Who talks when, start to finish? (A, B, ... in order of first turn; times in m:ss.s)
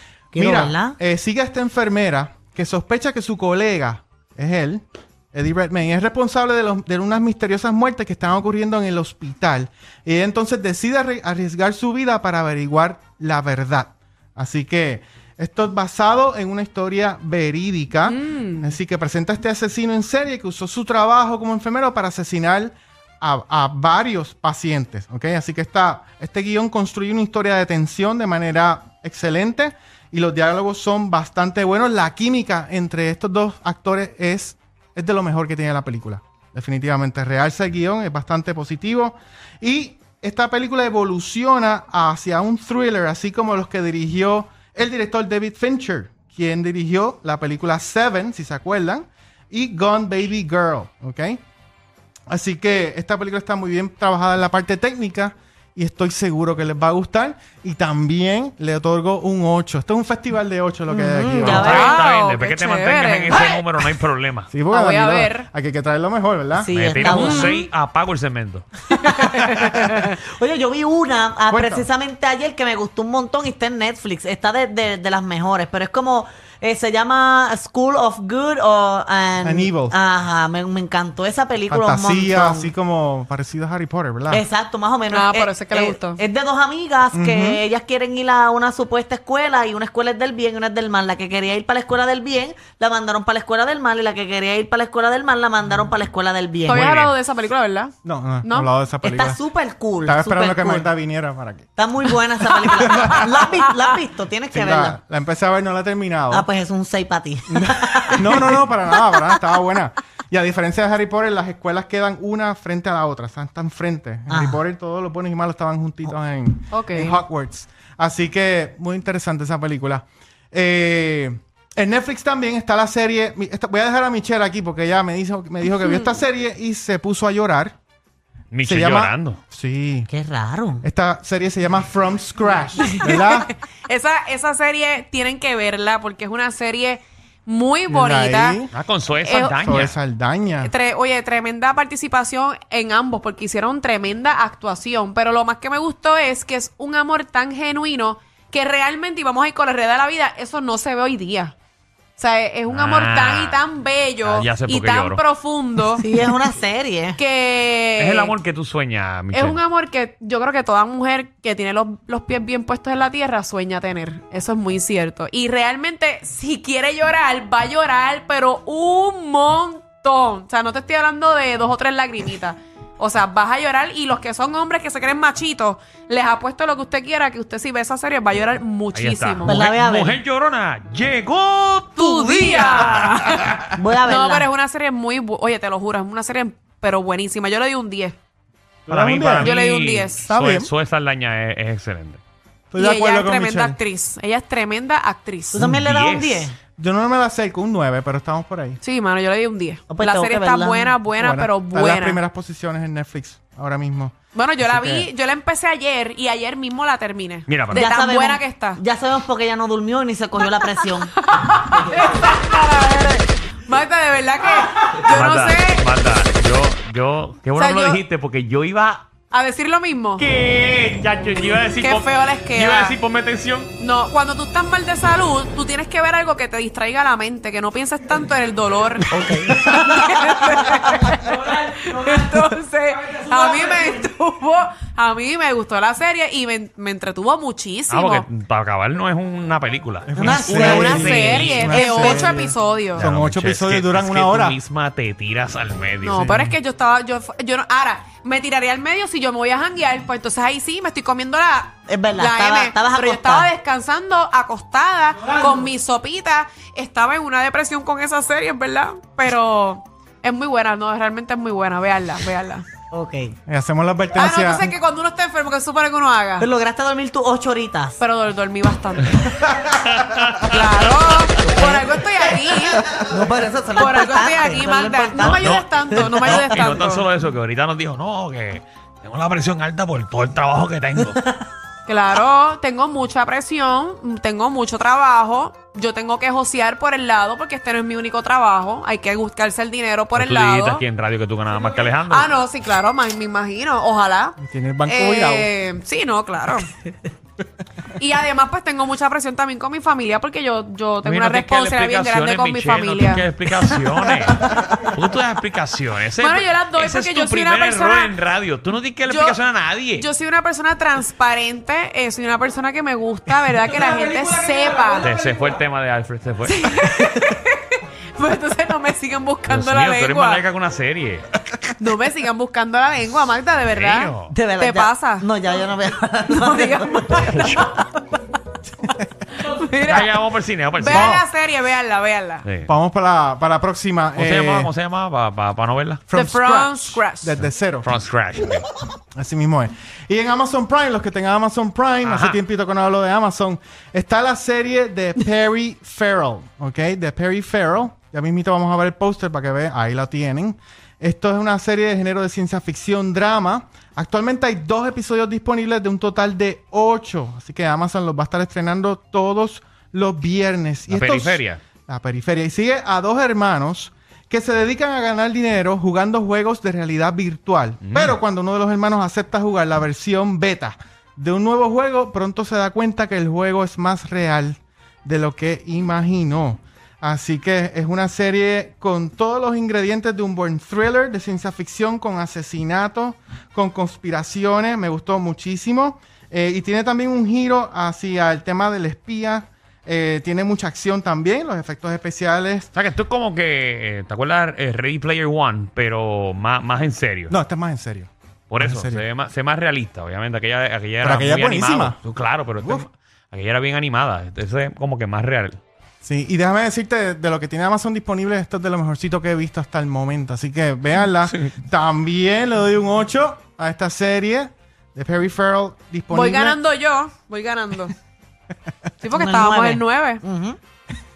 0:00.3-0:51.4 A
0:00.3-0:01.0 B
0:18.1-0:18.8 C
0:52.3-1:01.9 A
1:00.9-1:02.0 B
1:01.4-1:04.5 D
1:01.7-1:03.7 C
1:04.5-1:06.7 A
1:04.7-1:05.5 C
1:06.6-1:07.6 B
1:06.7-1:08.7 D
1:07.2-1:07.7 C
1:08.9-1:10.2 C
1:09.5-1:22.7 B
1:11.5-1:11.9 A
1:19.4-1:20.0 A
1:21.7-1:24.4 A
1:24.3-1:37.1 B
1:25.1-1:26.2 C
1:27.1-1:27.6 A
1:36.7-1:38.7 C
1:38.0-1:39.4 A
1:39.0-1:40.9 B
1:40.0-1:41.7 A
1:41.8-1:45.0 B
1:42.8-1:43.5 A
1:43.6-1:44.0 C
1:44.5-1:46.5 A
1:46.3-1:48.6 B
1:47.5-2:07.8 A
1:54.3-1:54.6 B
1:56.7-1:57.2 C
2:05.8-2:06.1 C
2:08.5-2:09.4 D
2:08.6-2:10.1 A
2:10.1-2:10.8 B
2:10.8-2:13.5 A
2:12.9-2:18.6 C
2:17.9-2:18.7 A
2:18.7-2:19.9 D
2:19.2-2:19.7 C
2:19.6-2:20.7 A
2:20.6-2:31.6 C
2:32.2-2:36.1 C
2:32.7-2:33.7 D
2:34.2-2:35.2 D
2:36.0-2:37.2 B
2:37.2-2:38.4 C
2:38.0-2:39.6 D
2:39.3-2:59.6 C
2:58.9-3:03.5 D
2:59.5-3:00.2 B
3:02.0-3:08.2 C
3:03.8-3:04.5 B
3:08.9-3:09.5 A
3:08.9-3:12.2 D
3:09.4-3:10.2 C
3:10.3-3:10.7 A
3:12.7-3:13.8 A
3:12.8-3:15.7 C
3:15.5-3:16.6 B
3:15.6-3:16.5 D
3:16.8-3:18.8 A
3:18.8-3:22.2 C
3:19.9-3:21.0 B
3:21.2-3:25.1 A
3:24.3-3:28.8 C
3:27.5-3:27.9 D
3:27.7-3:31.1 B
3:30.7-3:35.8 C
3:35.1-3:39.1 D
3:37.6-3:38.0 C
3:39.3-3:40.3 C
3:40.2-3:43.7 D
3:41.8-3:43.0 C
3:43.8-3:58.3 C
3:49.1-3:49.8 B
3:57.9-4:01.8 D
4:00.1-4:04.6 A
4:00.2-4:02.5 B
4:00.6-4:03.1 C
4:03.0-4:06.2 D
4:06.0-4:22.7 C
4:06.1-4:06.6 A
4:11.9-4:13.5 B
4:22.9-4:23.3 B
4:23.5-4:24.7 A
4:24.1-4:26.5 C
4:26.4-4:28.0 B
4:28.0-4:29.2 C
4:29.7-4:30.9 D
4:30.5-4:32.9 C
4:31.4-4:32.0 B
4:32.9-4:36.5 B
4:33.7-4:37.1 C
4:35.2-4:41.2 D
4:41.9-4:50.8 C
4:50.2-4:52.3 D
4:51.8-4:56.7 C
4:54.4-4:55.5 A
4:58.0-5:03.3 C
5:01.0-5:10.1 D
5:06.2-5:08.2 C
5:09.1-5:09.4 C
5:10.0-5:15.2 C
5:15.0-5:16.6 D
5:16.4-5:20.5 C
5:19.5-5:21.3 D
5:21.8-5:25.7 C
5:23.7-5:24.4 D
5:24.3-5:27.5 B
5:26.3-5:27.7 C
5:27.3-5:27.7 D
5:29.4-5:30.2 C
5:29.8-5:31.2 D
5:30.8-5:32.5 C
5:30.9-5:31.2 A
5:32.4-5:32.7 D
5:32.6-5:34.7 A
5:34.2-5:36.0 D
5:36.1-5:37.9 A
5:36.1-5:37.4 C
5:37.4-5:38.7 D
5:39.2-6:32.7 A
5:42.0-5:42.4 D
6:00.9-6:01.6 D
6:07.8-6:08.2 D
6:32.7-6:37.4 D
6:37.3-6:39.0 A
6:38.5-6:45.6 D
6:41.0-6:42.0 A
6:42.6-6:42.9 A
6:46.0-6:56.6 A
6:51.2-6:51.5 D
6:56.1-6:58.0 C
6:59.0-7:00.2 C
6:59.1-7:00.6 B